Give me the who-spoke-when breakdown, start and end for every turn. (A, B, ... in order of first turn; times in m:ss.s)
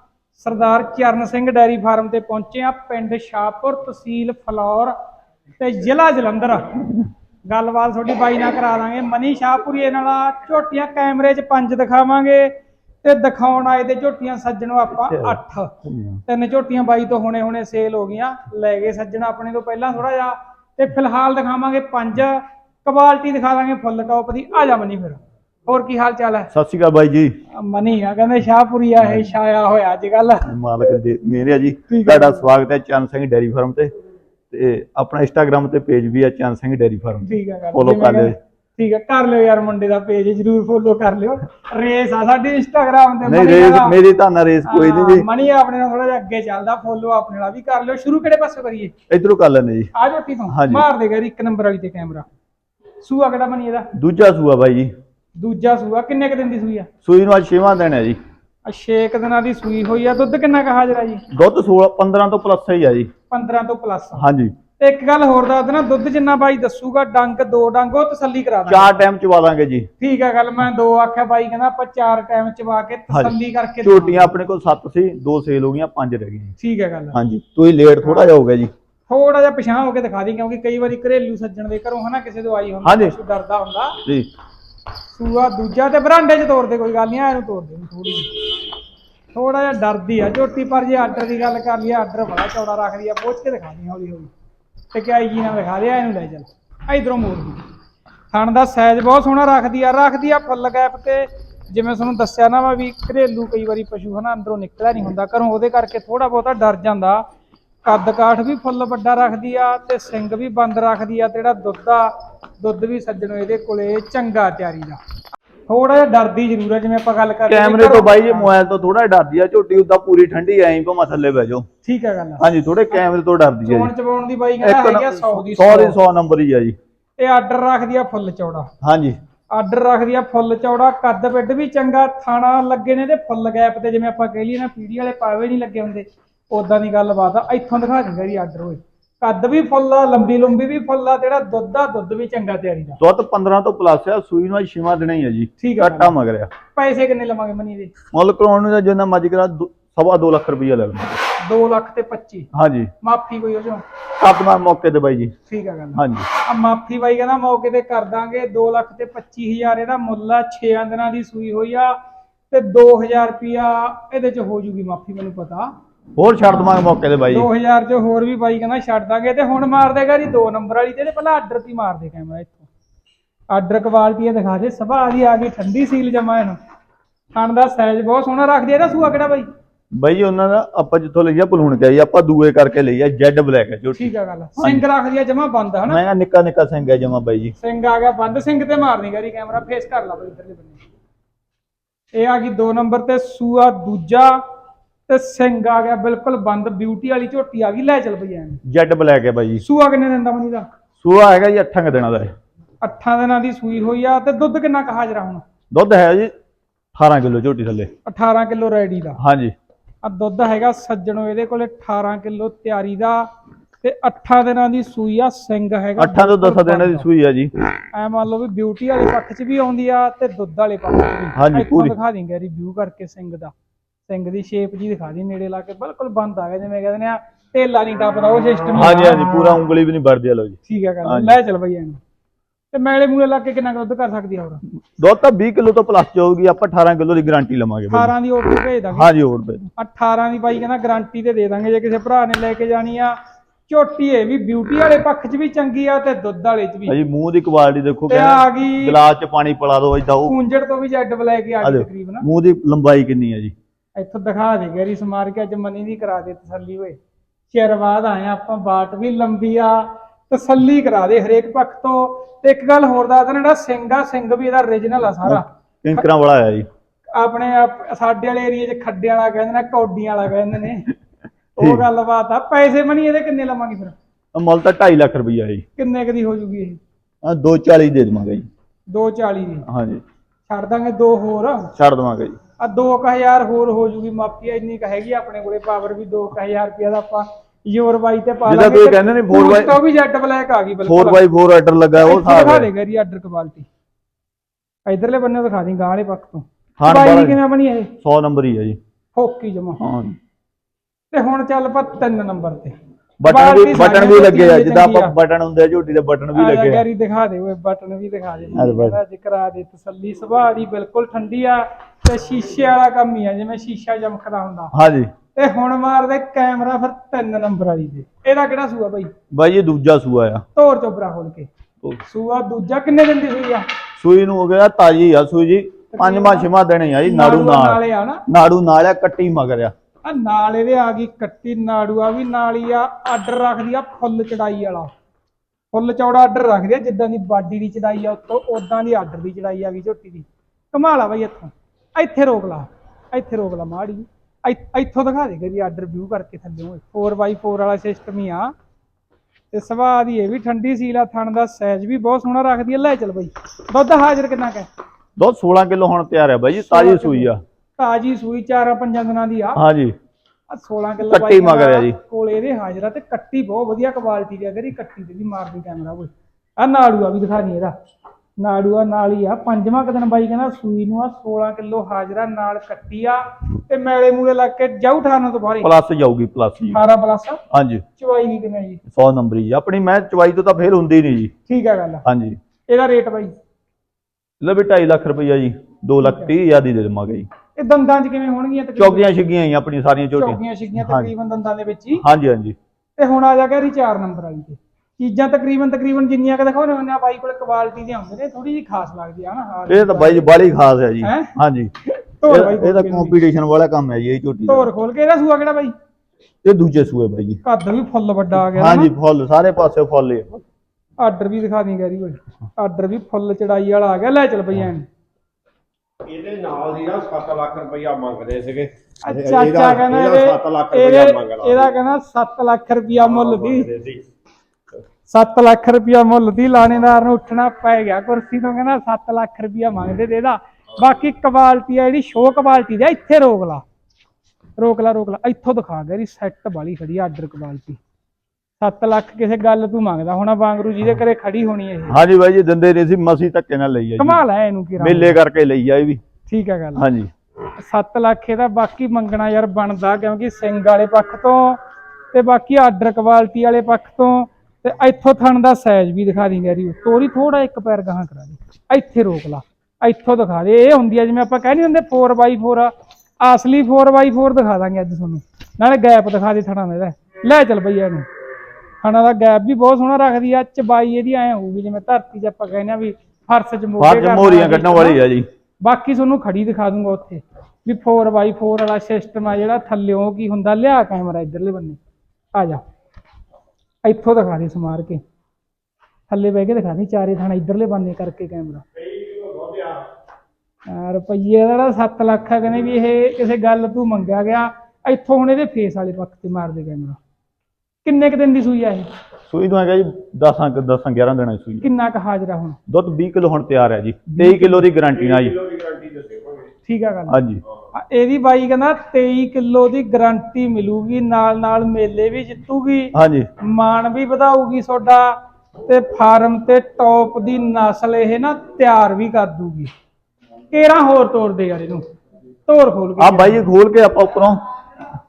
0:00.4-0:04.9 A
0:05.6-0:07.0 A
0:07.5-0:15.8 A
0:15.1-0:16.2 B
0:16.3-0:26.5 A
0:26.5-0:27.3 B
0:27.5-0:30.5 A
0:29.0-0:29.3 B
0:30.4-0:33.9 B
0:31.9-0:32.5 A
0:34.5-0:38.3 B
0:37.2-0:44.0 A
0:43.2-0:45.3 B
0:44.6-0:48.9 A
0:49.1-0:49.9 B
0:49.9-0:52.2 A
0:50.5-0:50.9 B
0:53.0-0:53.9 A
0:53.9-0:54.9 B
0:55.4-0:56.9 A
0:57.0-0:58.2 B
0:58.6-1:01.2 A
1:01.3-1:03.1 B
1:03.3-1:04.2 A
1:04.2-1:04.5 B
1:04.8-1:09.0 A
1:08.7-1:09.9 B
1:10.0-1:14.3 A
1:13.1-1:16.5 B
1:16.6-1:17.2 A
1:17.1-1:18.7 B
1:19.1-1:24.0 A
1:22.8-1:23.1 B
1:25.1-1:28.4 A
1:29.3-1:34.3 A
1:34.9-1:37.6 A
1:38.3-1:47.2 A
1:47.8-1:55.0 A
1:55.7-1:58.5 A
1:57.5-2:01.6 B
2:01.8-2:02.4 A
2:02.4-2:03.9 B
2:03.6-2:06.0 A
2:04.6-2:06.7 B
2:07.2-2:08.7 A
2:08.8-2:09.2 B
2:09.5-2:23.0 A
2:23.0-2:26.5 B
2:25.6-2:26.1 A
2:26.7-2:27.9 A
2:28.1-2:31.2 B
2:31.4-2:32.5 A
2:32.5-2:32.9 B
2:33.0-2:33.8 A
2:34.2-2:35.3 B
2:35.5-2:42.0 A
2:36.0-2:36.2 B
2:42.5-2:45.7 A
2:46.2-2:47.5 B
2:47.3-2:52.7 A
2:53.5-2:56.6 A
2:57.3-2:59.4 A
2:59.9-3:04.8 B
3:04.0-3:06.0 A
3:05.9-3:07.5 B
3:07.6-3:10.8 A
3:12.1-3:14.4 A
3:15.1-3:18.6 A
3:18.6-3:19.6 B
3:19.6-3:20.6 A
3:21.0-3:22.3 B
3:22.8-3:25.4 A
3:25.7-3:26.3 B
3:26.9-3:27.9 B
3:28.0-3:29.2 A
3:29.2-3:29.5 B
3:30.0-3:33.2 A
3:33.8-3:37.0 A
3:36.0-3:37.5 B
3:37.9-3:43.5 A
3:41.3-3:41.9 B
3:44.1-3:49.6 A
3:48.7-3:51.4 B
3:50.7-3:52.0 A
3:52.7-3:54.6 A
3:54.9-3:58.1 B
3:57.9-3:59.1 A
3:58.9-3:59.7 B
3:59.8-4:03.2 A
4:03.7-4:07.0 A
4:06.9-4:10.4 B
4:08.1-4:09.0 A
4:10.2-4:12.2 A
4:11.6-4:13.5 B
4:14.0-4:17.0 A
4:17.5-4:26.0 A
4:25.2-4:26.7 B
4:27.1-4:30.9 A
4:31.6-4:33.9 A
4:31.6-4:31.8 B
4:34.3-4:35.6 B
4:35.8-4:36.8 A
4:37.2-4:38.4 B
4:38.9-4:39.7 A
4:39.7-4:40.0 B
4:40.5-4:41.7 A
4:41.8-4:42.4 B
4:42.6-4:51.2 A
4:48.4-4:49.8 B
4:50.8-4:52.7 B
4:52.0-4:53.7 A
4:54.8-4:57.9 A
4:56.8-4:57.4 B
4:58.0-4:58.8 B
4:59.1-4:59.8 A
4:59.8-5:00.2 B
5:01.1-5:05.1 A
5:03.2-5:06.8 B
5:06.3-5:14.7 A
5:08.5-5:09.0 B
5:14.7-5:15.1 B
5:15.3-5:19.1 A
5:19.3-5:20.4 B
5:20.6-5:21.5 A
5:22.0-5:23.7 A
5:24.0-5:29.7 B
5:25.9-5:26.5 A
5:27.0-5:28.2 A
5:30.0-5:34.9 A
5:35.7-5:48.5 A
5:49.5-5:54.7 A
5:55.2-5:57.4 B
5:56.6-5:59.6 A
5:59.5-5:59.9 B
6:00.5-6:07.7 A
6:01.0-6:02.0 B
6:08.4-6:15.7 A
6:15.6-6:16.8 B
6:16.7-6:17.4 A
6:17.5-6:17.8 B
6:18.0-6:18.8 A
6:18.9-6:21.3 B
6:21.5-6:22.0 A
6:22.0-6:22.4 B
6:22.7-6:23.3 A
6:24.4-6:27.3 B
6:26.0-6:26.3 A
6:27.6-6:29.1 A
6:28.8-6:31.1 B
6:30.2-6:32.0 A
6:32.0-6:32.6 B
6:33.0-6:40.3 A
6:39.7-6:41.7 B
6:41.0-6:41.3 A
6:42.2-6:43.1 A
6:42.2-6:44.7 B
6:44.5-6:45.7 A
6:46.4-6:47.4 B
6:47.4-6:48.9 A
6:48.4-6:50.4 B
6:51.0-6:54.9 A
6:56.1-7:01.7 C
6:59.0-7:03.7 A
7:03.0-7:04.0 C
7:05.1-7:13.6 A
7:14.6-7:17.8 A
7:18.6-7:22.0 A
7:21.9-7:24.2 B
7:24.0-7:25.2 A
7:24.8-7:26.0 B
7:26.3-7:26.8 A
7:26.8-7:27.1 B
7:27.6-7:31.6 A
7:32.1-7:48.0 A
7:48.8-7:55.0 A
7:53.8-7:55.3 B
7:55.6-8:01.8 A
8:02.3-8:02.6 A
8:03.8-8:05.0 A
8:06.1-8:08.6 A
8:10.6-8:17.0 A
8:17.8-8:18.9 A
8:19.3-8:21.6 B
8:21.6-8:22.6 A
8:22.7-8:25.4 B
8:24.1-8:24.7 A
8:25.1-8:26.4 C
8:26.6-8:27.2 A
8:27.1-8:27.4 B
8:27.7-8:39.7 A
8:32.9-8:33.3 B
8:40.5-8:41.8 A
8:42.4-8:43.4 A
8:43.0-8:44.4 B